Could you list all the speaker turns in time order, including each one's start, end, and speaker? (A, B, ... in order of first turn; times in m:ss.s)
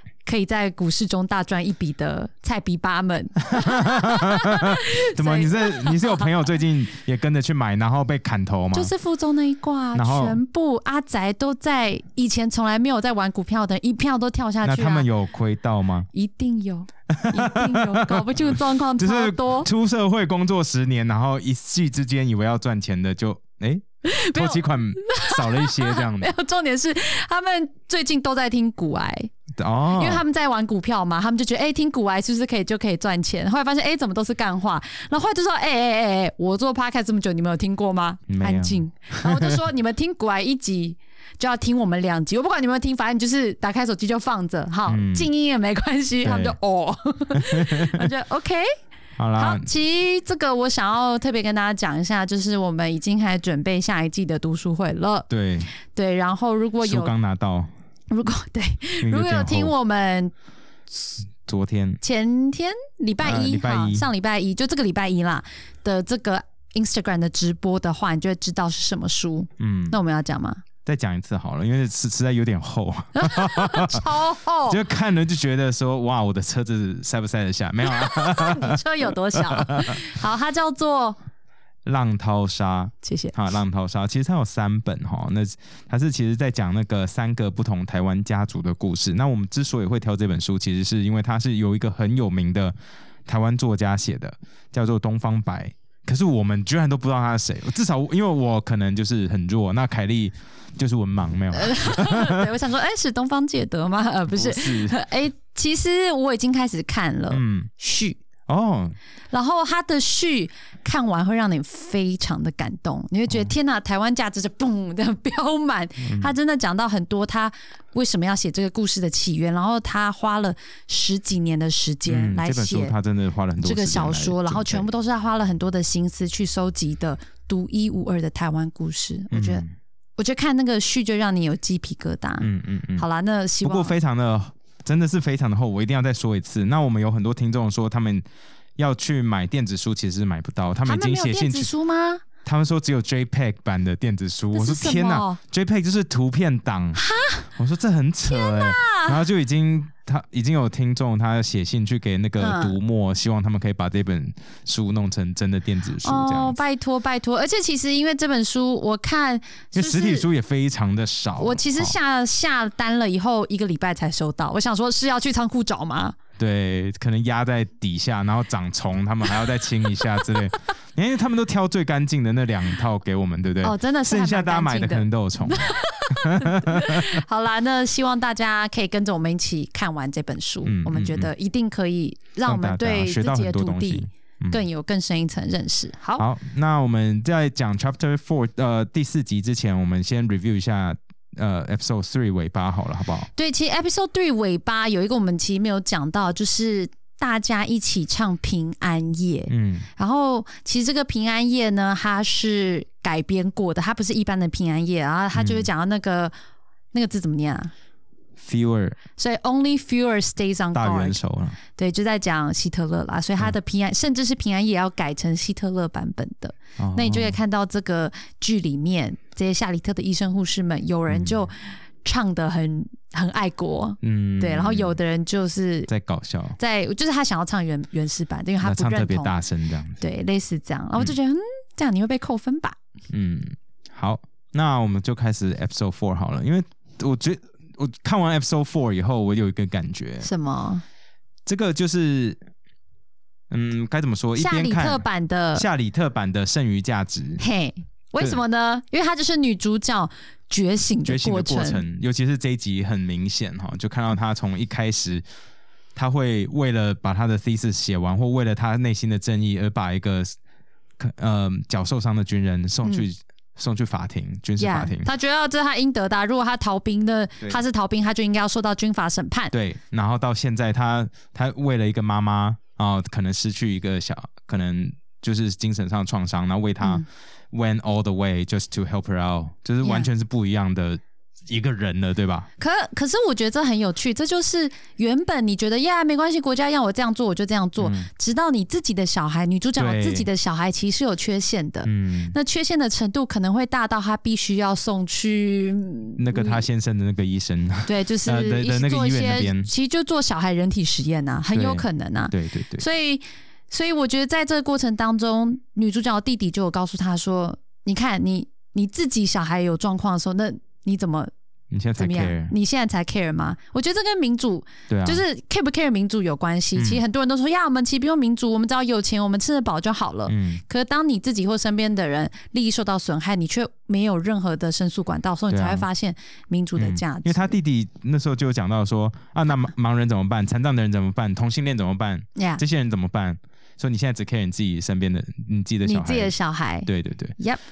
0:00.2-0:06.4 A
0:03.5-0:08.9 B
0:08.7-0:15.1 A
0:09.9-0:10.4 B
0:14.6-0:16.1 B
0:16.1-0:19.7 A
0:17.1-0:26.3 B
0:24.0-0:29.3 A
0:29.6-0:30.2 B
0:29.9-0:48.7 A
0:38.3-0:39.6 B
0:44.9-0:45.3 B
0:46.2-0:46.6 B
0:47.3-0:48.1 B
0:49.2-0:49.7 B
0:49.4-0:55.3 A
0:55.3-0:55.7 B
0:55.9-0:57.1 A
0:56.8-0:57.7 B
0:58.1-1:00.3 A
0:59.0-0:59.7 B
1:01.4-1:02.0 B
1:02.0-1:10.6 A
1:03.2-1:04.1 B
1:09.6-1:10.0 B
1:10.8-1:14.1 B
1:13.2-1:14.8 A
1:14.7-1:20.1 B
1:17.8-1:21.2 A
1:21.8-1:32.7 B
1:23.0-1:23.4 A
1:33.2-1:42.5 B
1:41.5-1:48.2 A
1:44.3-1:45.0 B
1:47.3-1:47.7 B
1:48.5-1:48.9 B
1:49.3-2:02.9 A
1:56.0-1:56.3 B
2:02.1-2:04.9 B
2:03.6-2:09.6 A
2:09.3-2:09.7 B
2:10.2-2:14.0 A
2:12.4-2:13.0 B
2:13.6-2:18.2 B
2:18.8-2:21.7 B
2:20.8-2:22.2 A
2:22.4-2:27.0 B
2:24.5-2:25.4 A
2:27.0-2:27.5 A
2:27.5-2:36.6 B
2:28.3-2:29.2 A
2:32.4-2:32.8 A
2:36.0-2:40.2 A
2:39.7-2:41.9 B
2:41.4-2:46.2 A
2:46.4-2:57.2 B
2:49.9-2:50.2 A
2:53.6-3:06.2 A
3:00.6-3:01.3 B
3:02.4-3:04.6 B
3:06.2-3:13.3 B
3:13.4-3:26.3 A
3:19.5-3:19.9 B
3:25.3-3:25.7 B
3:26.9-3:27.7 A
3:28.4-3:29.0 B
3:29.2-3:31.2 A
3:30.7-3:31.6 B
3:31.7-3:45.9 A
3:36.8-3:37.4 B
3:41.1-3:41.5 B
3:44.0-3:45.0 B
3:45.9-3:46.6 B
3:46.6-3:49.3 A
3:48.6-3:50.0 B
3:50.0-3:52.8 A
3:53.1-4:00.3 B
4:00.2-4:00.8 A
4:01.4-4:02.4 B
4:03.5-4:07.4 B
4:04.3-4:05.6 A
4:07.4-4:11.8 A
4:11.0-4:15.2 B
4:15.9-4:20.3 B
4:21.0-4:25.1 B
4:24.6-4:29.5 A
4:29.5-4:42.5 B
4:39.8-4:40.1 A
4:42.6-4:56.6 A
4:47.8-4:48.1 B
4:49.8-4:50.3 B
4:51.8-4:52.4 B
4:56.2-4:59.7 B
4:57.8-5:11.3 A
5:01.5-5:02.8 B
5:11.7-5:12.5 B
5:12.0-5:27.6 A
5:14.9-5:15.2 B
5:16.7-5:17.0 B
5:20.3-5:20.6 B
5:25.5-5:25.8 B
5:26.8-5:36.3 B
5:32.4-5:32.6 A
5:35.8-5:37.6 A
5:36.8-5:37.3 B